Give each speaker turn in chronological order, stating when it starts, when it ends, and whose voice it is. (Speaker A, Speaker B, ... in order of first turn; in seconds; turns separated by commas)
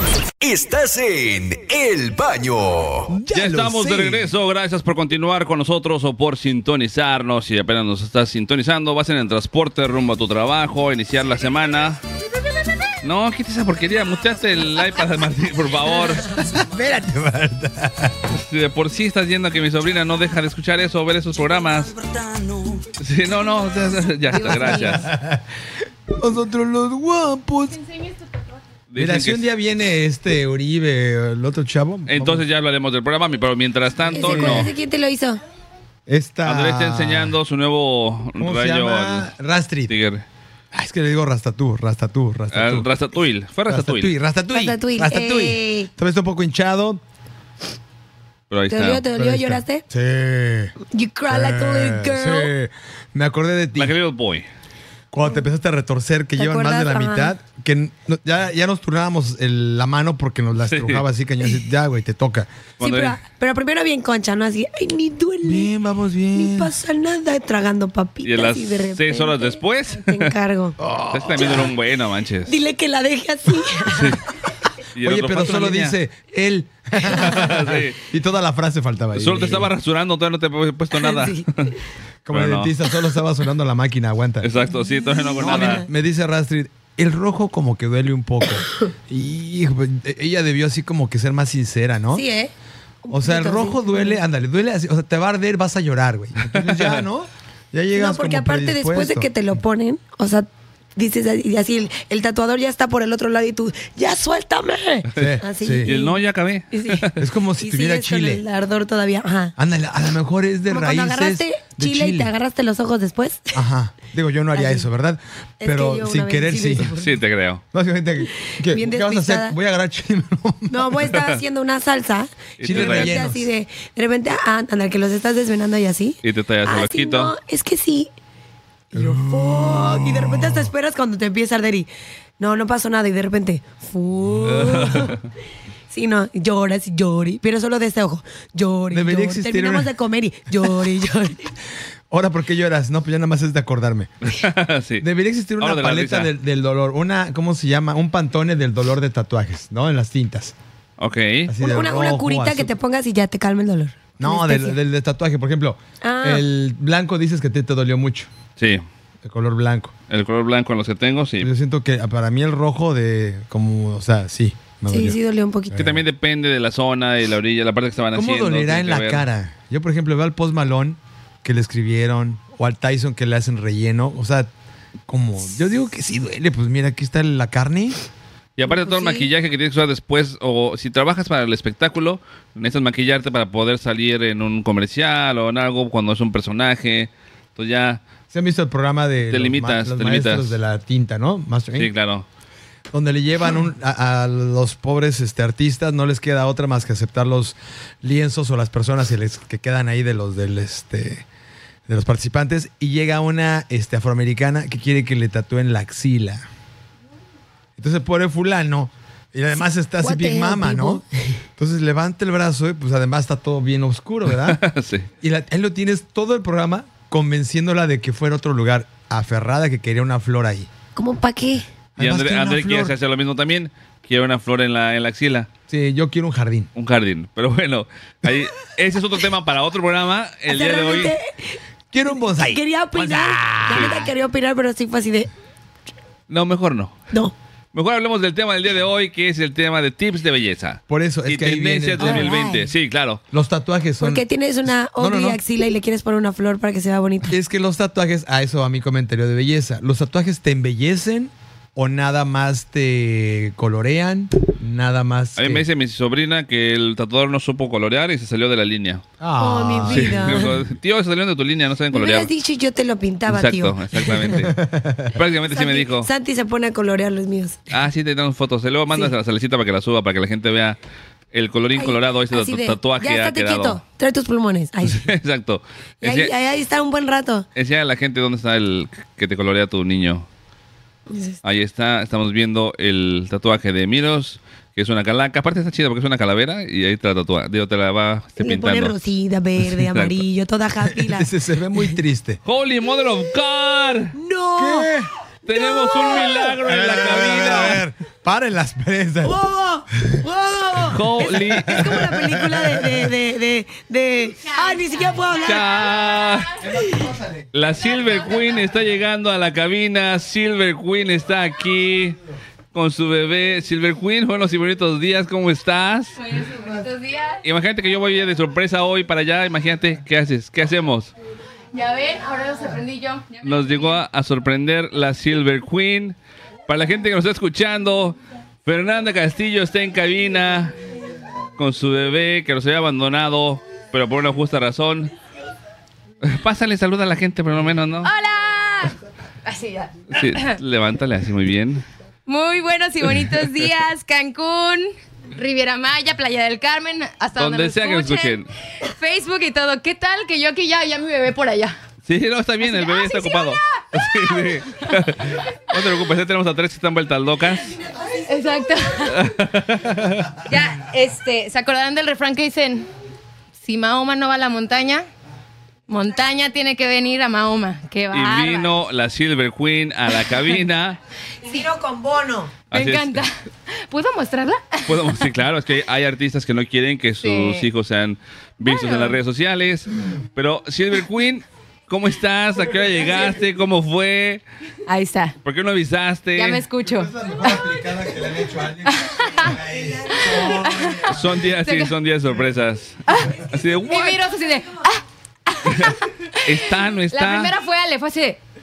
Speaker A: 0.4-3.1, Speaker B: 3.1-4.3, Speaker C: 3.3-12.0, Speaker C: 13.0-16.4, Speaker B: 16.5-18.1, Speaker C: 18.3-21.9, Speaker C: 23.0-25.1, Speaker D: 24.3-25.0, Speaker B: 24.4-25.4, Speaker B: 26.1-27.8, Speaker E: 27.8-28.1, Speaker C: 28.9-29.4, Speaker B: 28.9-32.4, Speaker C: 32.1-34.7, Speaker D: 34.1-35.4, Speaker B: 34.1-34.7, Speaker B: 36.1-37.4, Speaker C: 36.4-39.3, Speaker B: 38.4-39.9, Speaker C: 39.9-40.2, Speaker B: 40.7-42.9, Speaker C: 42.5-44.1, Speaker B: 43.7-47.0, Speaker D: 44.5-45.9, Speaker C: 48.5-49.0, Speaker D: 48.7-49.8, Speaker B: 49.1-50.8, Speaker D: 50.8-52.5, Speaker B: 51.3-53.9, Speaker C: 53.8-54.5, Speaker B: 55.1-62.5, Speaker D: 56.4-57.3, Speaker C: 60.7-61.0, Speaker C: 62.8-63.1, Speaker D: 62.8-65.7, Speaker B: 65.4-66.7, Speaker D: 66.3-70.7, Speaker C: 68.2-70.3, Speaker B: 70.8-71.7, Speaker C: 71.1-72.5, Speaker D: 72.5-74.2, Speaker C: 73.9-74.2, Speaker C: 74.9-76.0, Speaker B: 75.0-79.7, Speaker C: 77.0-78.0, Speaker C: 79.2-81.7, Speaker D: 81.0-81.5, Speaker B: 82.3-84.5, Speaker C: 82.3-82.7, Speaker C: 84.4-85.8, Speaker D: 84.8-85.8, Speaker B: 85.4-92.2, Speaker D: 92.1-92.5, Speaker D: 93.0-94.2, Speaker B: 93.1-99.3, Speaker C: 96.5-97.0, Speaker D: 97.9-107.1, Speaker B: 105.2-105.9, Speaker C: 105.9-107.2, Speaker B: 107.2-108.4, Speaker D: 107.6-109.5, Speaker B: 109.5-112.3, Speaker D: 110.7-113.6, Speaker B: 113.5-116.9, Speaker D: 114.5-114.8, Speaker D: 115.6-117.2, Speaker C: 116.8-117.6, Speaker B: 117.7-121.1, Speaker D: 118.5-119.5, Speaker D: 120.7-128.1, Speaker C: 122.6-123.3, Speaker B: 122.6-123.5, Speaker C: 126.2-127.3, Speaker D: 128.9-135.2, Speaker B: 128.9-130.7, Speaker B: 134.3-135.1, Speaker C: 134.4-135.2, Speaker D: 135.9-141.4, Speaker B: 138.9-139.9, Speaker B: 142.1-144.1, Speaker C: 144.2-145.1, Speaker B: 145.0-150.5, Speaker C: 145.6-146.3, Speaker C: 151.0-151.5, Speaker B: 151.5-152.7, Speaker D: 151.6-154.8, Speaker B: 154.2-158.3, Speaker D: 156.0-156.4, Speaker C: 158.6-158.8, Speaker B: 159.2-159.9, Speaker C: 160.1-161.5, Speaker B: 161.4-165.2, Speaker D: 164.9-165.7, Speaker B: 165.7-166.0, Speaker C: 165.7-169.2, Speaker B: 168.1-174.5, Speaker B: 175.1-178.0, Speaker C: 178.6-188.0, Speaker D: 178.6-179.3, Speaker B: 188.3-191.9, Speaker C: 189.3-190.5, Speaker C: 191.7-192.2, Speaker B: 192.9-201.2, Speaker B: 201.9-206.4, Speaker B: 207.8-211.0, Speaker D: 210.0-211.0, Speaker B: 211.6-214.6, Speaker C: 214.3-215.1, Speaker B: 215.2-220.7, Speaker D: 220.9-221.7, Speaker B: 222.0-222.9, Speaker C: 222.0-225.5, Speaker B: 225.7-226.7, Speaker C: 226.7-231.1, Speaker D: 230.5-231.6, Speaker B: 231.9-234.0, Speaker D: 232.3-235.3, Speaker C: 233.7-234.0, Speaker C: 236.3-236.9, Speaker C: 237.7-243.2, Speaker B: 240.9-242.4, Speaker D: 242.0-242.7, Speaker B: 243.3-245.4, Speaker D: 244.0-247.3, Speaker B: 247.3-255.6, Speaker C: 255.4-259.0, Speaker B: 259.2-260.6, Speaker D: 259.4-260.5, Speaker C: 259.9-262.3, Speaker D: 261.9-264.4, Speaker C: 263.3-264.5, Speaker B: 264.3-265.1, Speaker C: 265.1-266.1, Speaker D: 265.5-267.7, Speaker C: 267.7-270.8, Speaker C: 271.3-273.8, Speaker D: 271.8-275.1, Speaker C: 274.9-276.3, Speaker D: 276.0-277.4, Speaker C: 277.5-280.2, Speaker D: 281.1-281.4, Speaker C: 281.4-288.9, Speaker D: 288.4-291.3, Speaker C: 289.7-290.1, Speaker B: 290.9-292.4, Speaker C: 292.4-294.1, Speaker D: 294.1-294.9, Speaker B: 294.6-295.1, Speaker C: 295.4-297.8, Speaker D: 295.5-296.5, Speaker B: 296.6-299.4, Speaker D: 299.2-305.8, Speaker C: 300.9-301.9, Speaker B: 301.7-302.9, Speaker C: 305.4-306.5, Speaker B: 306.6-307.5, Speaker C: 307.5-312.2, Speaker C: 312.7-316.2, Speaker E: 316.2-317.4, Speaker C: 317.4-321.1, Speaker E: 321.7-324.0, Speaker C: 323.4-326.1, Speaker C: 326.7-330.7, Speaker C: 331.6-335.1, Speaker C: 336.2-338.1, Speaker E: 338.0-340.6, Speaker C: 340.1-341.8, Speaker E: 342.3-351.8, Speaker C: 347.4-348.5, Speaker C: 352.1-357.7, Speaker E: 352.6-353.8, Speaker E: 358.2-359.2, Speaker C: 359.1-360.3, Speaker E: 360.4-362.9, Speaker E: 363.6-365.1, Speaker E: 365.9-368.8, Speaker C: 368.1-371.0, Speaker D: 371.4-372.5, Speaker C: 372.7-373.2, Speaker E: 372.7-373.3, Speaker E: 373.9-375.2, Speaker C: 374.9-384.4, Speaker E: 377.2-377.7, Speaker E: 378.6-379.2, Speaker E: 384.9-385.4, Speaker C: 385.4-386.6, Speaker E: 386.4-387.5, Speaker B: 386.8-391.4, Speaker E: 388.9-389.5, Speaker E: 390.1-391.9, Speaker C: 391.1-394.2, Speaker E: 393.1-398.4, Speaker C: 395.6-397.5